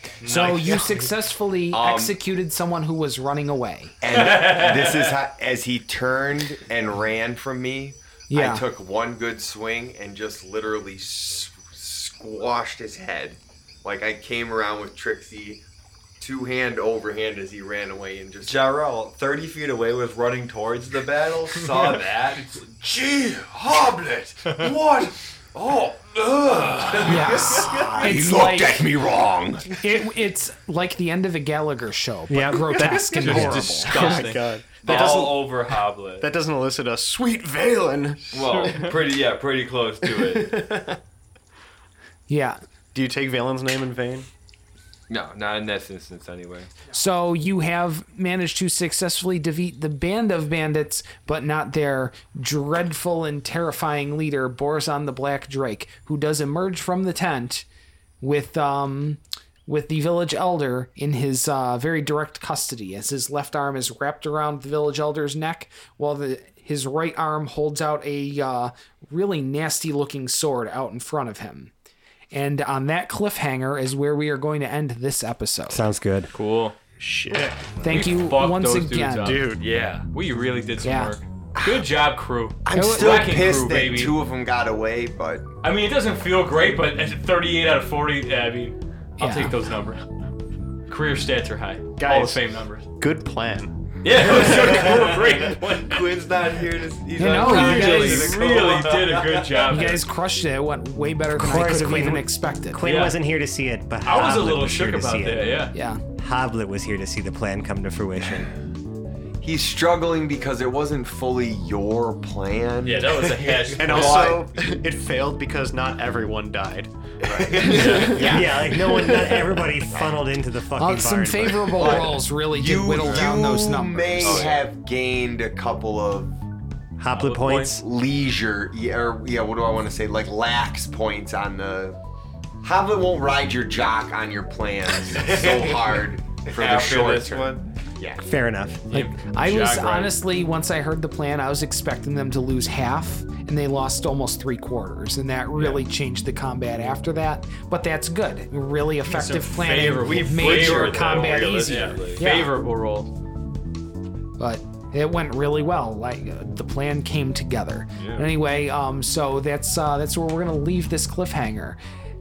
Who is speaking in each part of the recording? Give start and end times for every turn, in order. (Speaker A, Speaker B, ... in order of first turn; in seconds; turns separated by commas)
Speaker A: 0.2-1.0, Speaker B: 0.2-4.0, Speaker C: 1.7-2.2, Speaker C: 4.0-15.6, Speaker A: 4.1-5.2, Speaker B: 8.3-8.7, Speaker C: 16.2-18.8, Speaker D: 18.4-28.2, Speaker C: 26.9-29.8, Speaker B: 27.0-28.8, Speaker B: 29.7-34.0, Speaker E: 32.3-39.0, Speaker A: 33.1-35.4, Speaker D: 34.8-36.3, Speaker D: 38.2-40.6, Speaker A: 38.5-38.9, Speaker E: 40.0-41.0, Speaker B: 42.3-42.6, Speaker E: 42.9-44.3, Speaker D: 45.1-46.7, Speaker B: 46.9-57.7, Speaker B: 58.2-71.7, Speaker B: 72.3-75.8, Speaker F: 75.7-76.3, Speaker A: 76.3-76.8, Speaker E: 77.0-78.0, Speaker B: 77.8-79.4, Speaker A: 77.8-84.2, Speaker E: 79.2-79.7, Speaker D: 79.6-80.1, Speaker B: 80.8-81.2, Speaker C: 81.6-81.9, Speaker C: 82.7-85.5, Speaker B: 82.7-83.3, Speaker A: 85.6-90.0, Speaker B: 89.2-89.6, Speaker A: 90.9-92.9, Speaker E: 92.0-95.3, Speaker A: 94.0-96.1, Speaker D: 94.2-99.8, Speaker B: 97.2-98.5, Speaker A: 97.3-100.0, Speaker B: 99.7-102.9, Speaker F: 101.4-105.6, Speaker A: 102.8-103.2, Speaker A: 104.0-105.7, Speaker B: 105.7-106.0, Speaker F: 106.2-108.5, Speaker C: 109.4-114.6, Speaker A: 112.8-114.5, Speaker E: 113.8-119.7, Speaker C: 117.2-118.7, Speaker A: 117.7-118.2, Speaker F: 118.2-122.1, Speaker B: 120.8-124.5, Speaker C: 121.7-126.4, Speaker D: 124.2-124.7, Speaker F: 127.0-127.8, Speaker A: 127.1-127.8, Speaker C: 127.8-132.0, Speaker C: 132.6-138.2, Speaker D: 135.2-135.8, Speaker D: 136.4-137.7, Speaker F: 138.2-138.8, Speaker A: 138.9-140.2, Speaker B: 138.9-152.6, Speaker A: 149.1-153.1, Speaker D: 149.9-152.3, Speaker B: 154.4-161.8, Speaker D: 158.0-158.3